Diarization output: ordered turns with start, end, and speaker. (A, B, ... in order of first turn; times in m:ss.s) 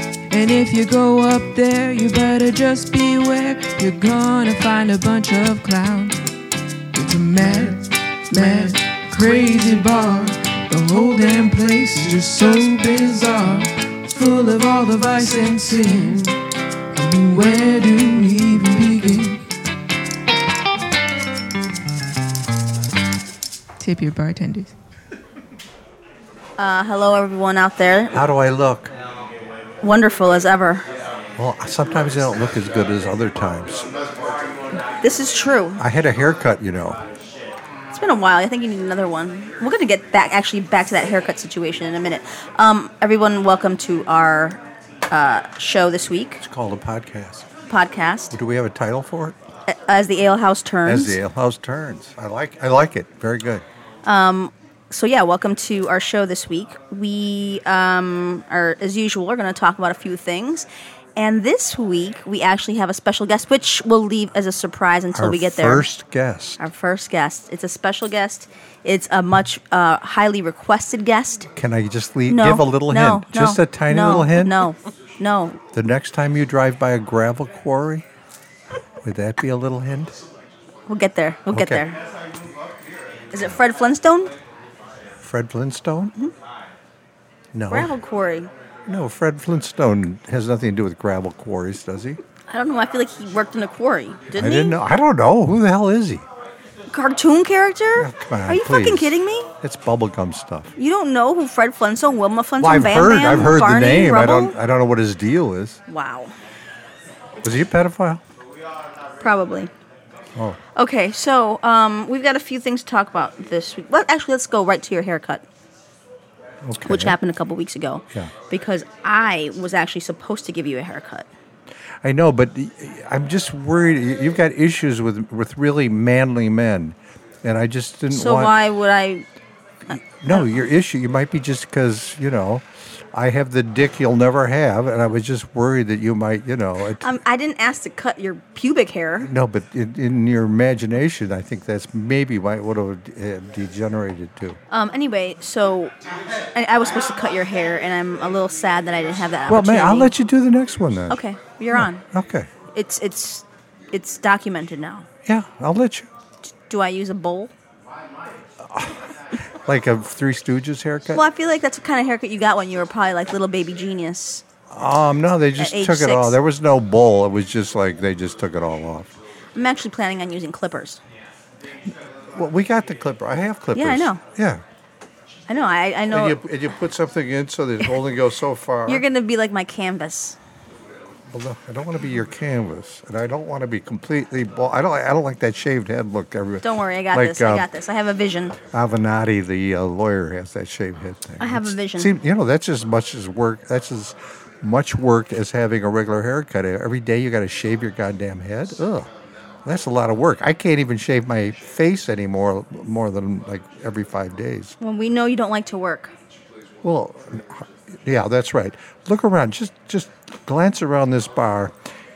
0:00.3-0:06.2 A
0:06.9-0:16.4 A
0:16.9-0:19.4 A
0:23.8-0:24.7 A
0:26.6-0:28.2 B
0:28.1-0:28.9 C
0:29.8-0:30.8 B
0:31.4-0:33.9 C
0:34.8-0:35.8 B
0:35.8-0:37.0 C
0:37.9-0:46.4 B
0:46.4-0:47.5 C
0:47.7-0:48.3 B
0:48.3-0:49.4 C
0:49.7-0:51.2 B
0:50.8-0:53.6 C
0:54.0-1:05.9 B
1:05.1-1:06.6 C
1:06.6-1:11.5 B
1:11.5-1:14.7 C
1:12.3-1:15.6 B
1:15.7-1:18.0 C
1:19.0-1:20.2 C
1:20.9-1:22.0 B
1:21.5-1:21.8 C
1:23.3-1:24.3 B
1:25.2-1:26.1 C
1:27.5-1:28.0 C
1:27.7-1:28.5 B
1:28.8-1:32.2 C
1:32.5-1:34.8 B
1:34.3-1:36.2 C
1:36.9-1:39.5 B
1:38.0-1:40.7 C
1:40.8-1:44.6 B
1:42.6-1:45.8 C
1:45.9-1:46.3 B
1:47.4-1:48.2 C
1:49.2-1:49.7 B
1:50.7-1:55.4 B
1:56.6-1:57.2 C
1:56.8-2:01.3 B
2:02.0-2:08.6 C
2:08.1-2:09.2 B
2:09.9-2:17.0 C
2:09.9-2:10.4 B
2:17.0-2:19.3 B
2:19.2-2:24.6 C
2:24.7-2:25.9 B
2:26.5-2:30.1 B
2:29.5-2:31.2 C
2:31.1-2:32.0 B
2:31.7-2:32.5 C
2:32.7-2:35.1 B
2:35.2-2:36.1 C
2:36.5-2:37.5 B
2:38.6-2:41.2 C
2:41.1-2:44.4 B
2:44.7-2:49.1 C
2:45.6-2:46.4 B
2:49.5-2:51.0 B
2:52.4-2:54.6 C
2:53.7-2:54.2 B
2:55.5-2:56.4 B
2:56.1-2:59.0 C
2:58.9-3:00.4 B
3:01.3-3:07.7 C
3:06.6-3:08.6 B
3:08.6-3:19.1 C
3:11.4-3:12.1 B
3:19.6-3:24.7 C
3:24.8-3:26.1 B
3:26.8-3:31.8 C